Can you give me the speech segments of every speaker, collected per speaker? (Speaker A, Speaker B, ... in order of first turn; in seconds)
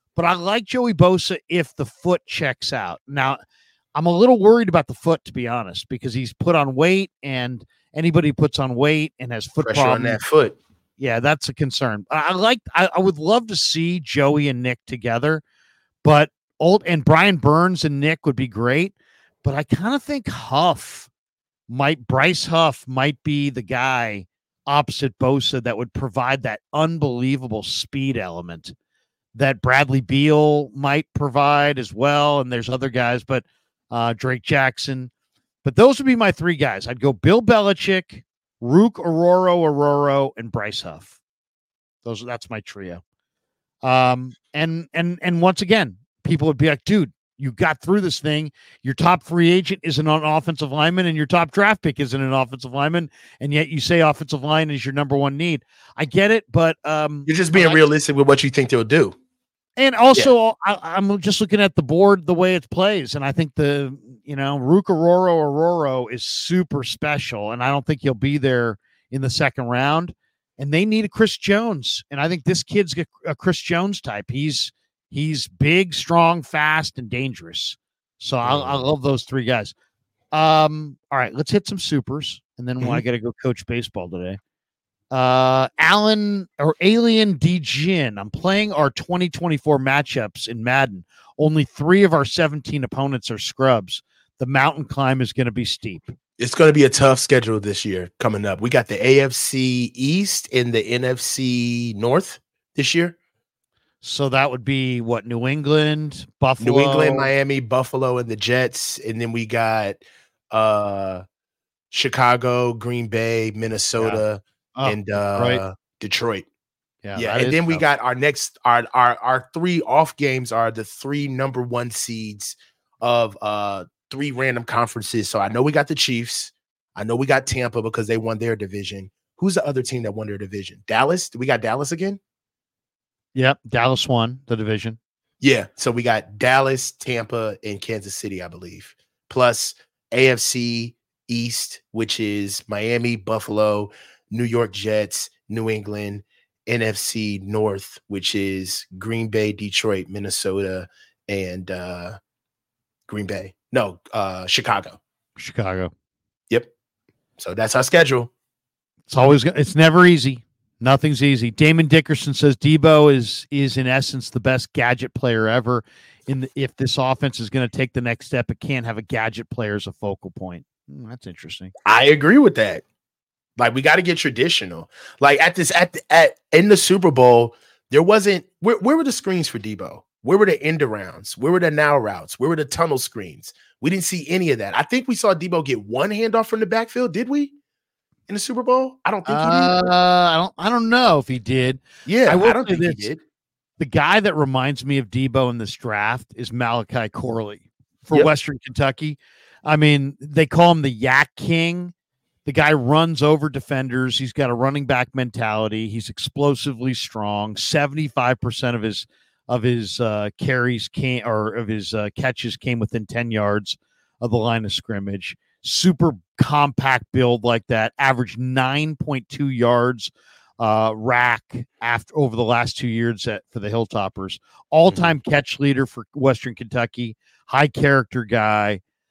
Speaker A: 0.2-3.4, 4.0-10.2, 11.0-15.4, 16.0-21.1, 21.7-28.7, 29.4-35.1, 35.6-41.1, 42.0-43.0, 43.8-57.8, 59.8-79.7, 80.3-84.4, 85.1-96.1, 104.0-107.3, 114.0-114.2, 114.8-115.6, 117.0-117.8, 133.3-135.0, 155.4-155.9, 159.1-171.7, 189.3-193.1, 193.8-201.9, 202.4-228.8
Speaker B: 9.6-10.6, 57.3-59.2, 78.4-78.9, 96.4-103.2, 106.6-111.2, 111.9-116.5, 117.2-132.2, 135.4-152.2, 153.1-155.0, 157.4-158.3, 171.8-172.8, 173.6-187.5, 188.3-189.8, 192.1-193.2, 224.9-225.2